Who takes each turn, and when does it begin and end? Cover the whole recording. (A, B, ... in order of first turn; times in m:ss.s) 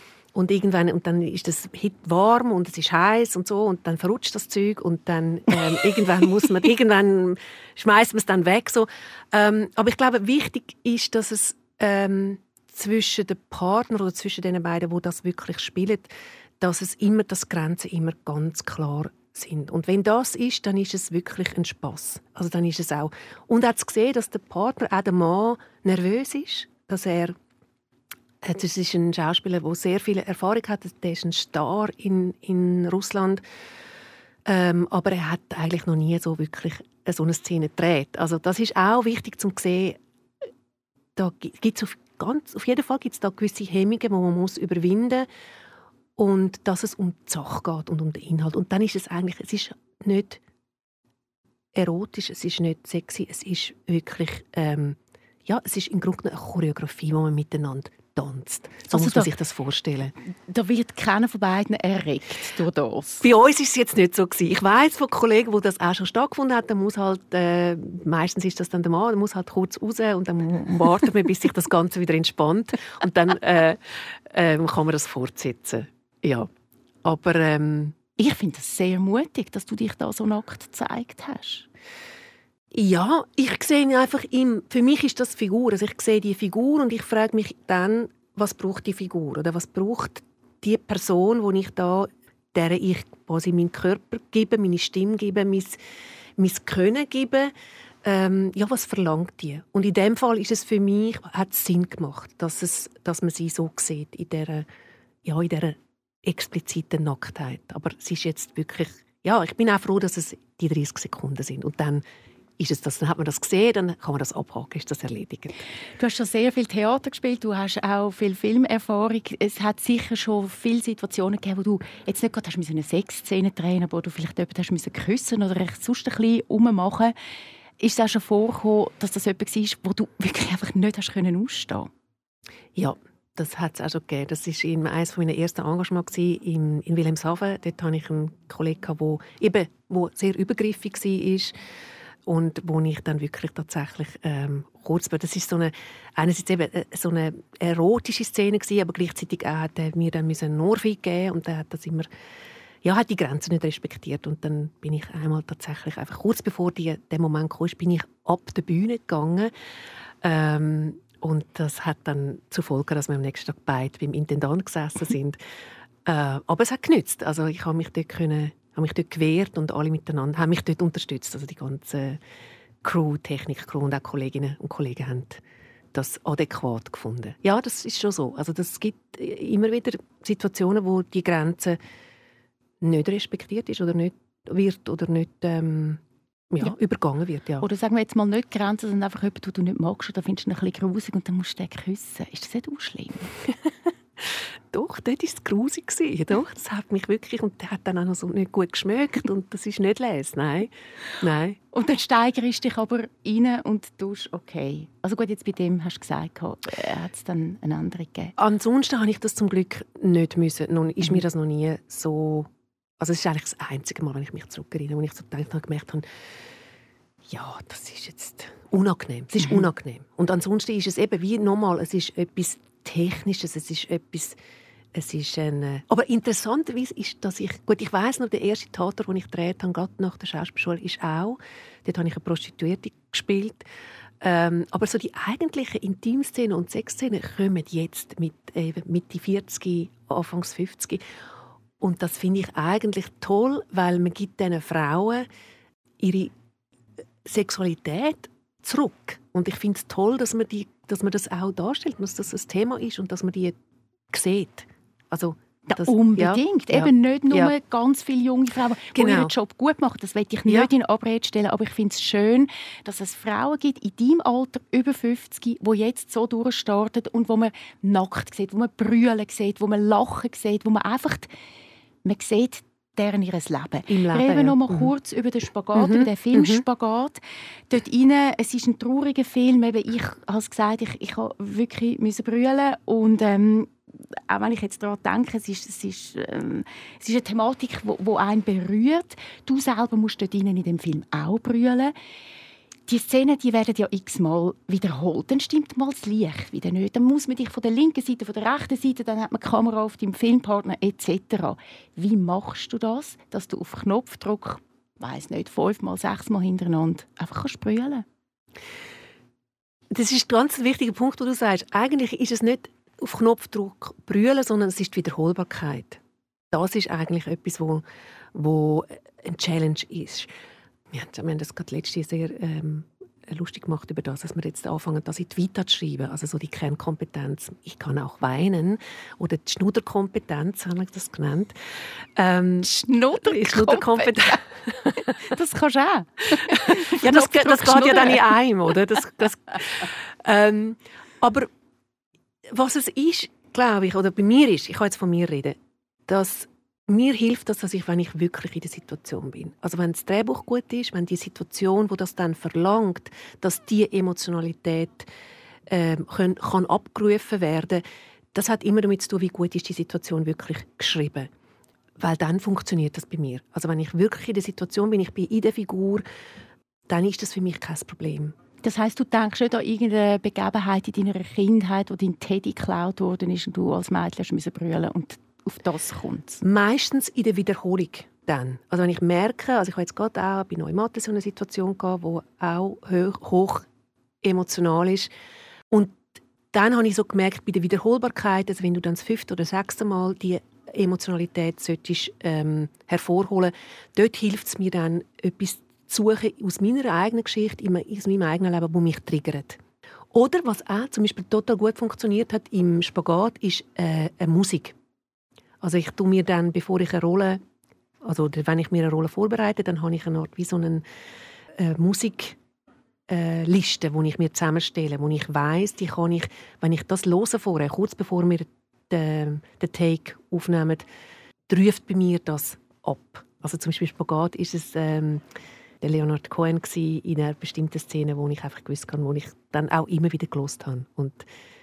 0:00.3-0:27.4 A
0:28.4-0:33.4 A
0:34.4-0:40.0 A
0:41.2-0:45.3 A
0:46.2-0:50.4 A
0:51.7-1:00.1 A
0:58.9-0:59.3 B
1:00.5-1:03.2 B
1:03.2-1:16.5 A
1:17.0-1:18.0 A
1:18.2-1:21.7 B
1:22.7-1:35.8 A
1:36.4-1:37.5 A
1:38.0-1:44.7 A
1:45.2-1:52.0 A
1:52.6-1:55.6 A
1:56.0-2:07.1 B
2:07.8-2:11.9 B
2:12.8-2:21.5 A
2:22.3-2:32.1 A
2:32.8-2:39.5 A
2:40.2-2:45.4 A
2:46.0-2:52.2 A
2:52.8-2:55.4 A
2:55.9-3:01.8 A
3:02.8-3:07.6 A
3:07.6-3:13.3 B
3:14.7-3:21.6 A
3:21.7-3:28.4 B
3:28.4-3:36.1 A
3:37.3-3:44.4 A
3:44.9-3:53.7 A
3:54.2-4:01.0 A
4:01.8-4:05.3 A
4:06.0-4:06.3 A
4:07.2-4:13.6 A
4:14.1-4:17.5 A
4:15.7-4:31.3 B
4:19.0-4:19.3 A
4:32.0-4:43.7 B
4:33.9-4:34.9 A
4:35.8-4:36.6 A
4:44.3-4:51.9 B
4:52.9-5:08.0 B
5:09.9-5:20.3 A
5:20.9-5:31.6 A
5:32.2-5:35.1 A
5:32.6-5:38.4 B
5:36.4-5:41.5 A
5:42.5-5:55.1 A
5:55.7-5:57.8 A
5:58.3-6:01.3 A
6:02.0-6:06.0 A
6:06.9-6:08.4 A
6:08.6-6:16.4 B
6:16.4-6:23.7 A
6:24.2-6:25.1 A
6:25.7-6:39.6 A
6:40.1-6:44.8 A
6:45.6-6:47.4 A
6:48.0-6:50.8 A
6:51.6-6:52.4 A
6:53.1-7:00.8 A
7:01.5-7:05.2 A
7:05.8-7:11.3 A